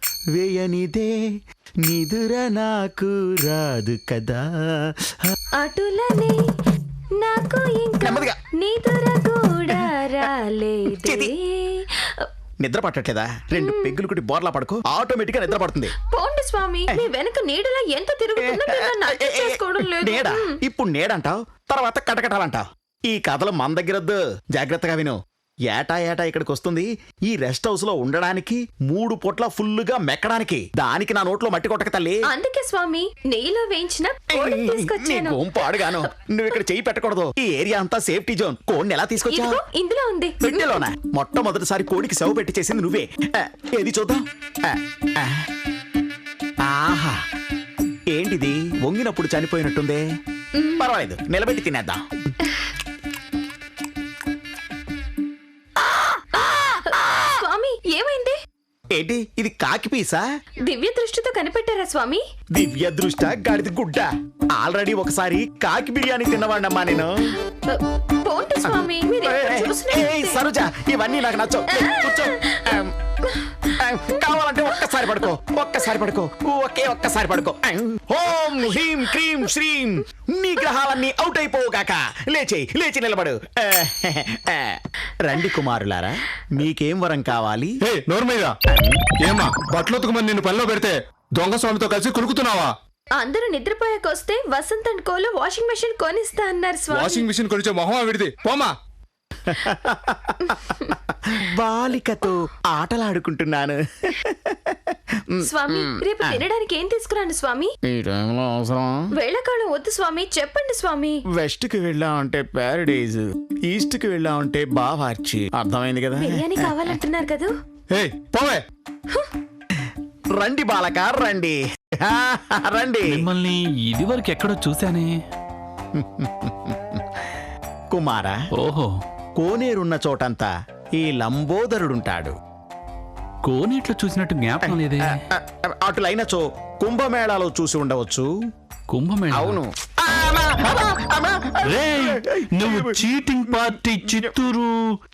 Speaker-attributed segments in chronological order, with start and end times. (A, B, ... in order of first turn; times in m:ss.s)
0:00.4-0:01.1 A
0:01.8-0:04.5 A
0:05.6-0:06.4 B
0:07.2-0:12.3 B
0:08.0-0:08.4 A
0:11.0-0:11.3 A
0:12.6-0:15.9 A
0:13.6-0:13.9 B
0:15.9-0:20.6 B
0:18.4-0:25.2 A
0:25.7-0:32.2 A
0:32.3-0:36.1 B
0:34.3-0:39.6 A
0:39.2-0:40.8 B
0:40.4-0:45.4 A
0:46.6-0:47.2 A
0:48.1-0:50.0 A
0:50.5-0:50.8 B
0:50.8-0:52.0 A
0:52.4-0:52.7 B
0:55.9-0:57.4 A
0:56.3-0:58.4 B
0:58.9-1:00.2 A
1:00.6-1:02.2 B
1:02.6-1:07.2 A
1:07.6-1:10.4 B
1:08.6-1:27.8 A
1:11.7-1:12.6 B
1:13.2-1:13.6 B
1:14.8-1:15.1 B
1:27.8-1:28.5 C
1:28.7-1:29.0 A
1:29.2-1:32.7 C
1:33.1-1:37.2 B
1:36.9-1:38.7 C
1:39.4-1:46.4 A
1:40.4-1:40.9 B
1:45.4-1:47.7 B
1:47.9-1:49.1 A
1:49.1-1:51.2 B
1:51.4-1:56.8 A
1:56.1-1:57.5 B
1:57.9-1:58.6 C
2:00.4-2:03.2 A
2:03.1-2:05.1 D
2:06.0-2:07.2 A
2:07.9-2:08.4 A
2:08.6-2:08.9 D
2:09.4-2:12.3 A
2:13.4-2:15.2 D
2:14.6-2:18.3 A
2:18.9-2:19.6 D
2:19.3-2:24.4 A
2:21.6-2:25.0 D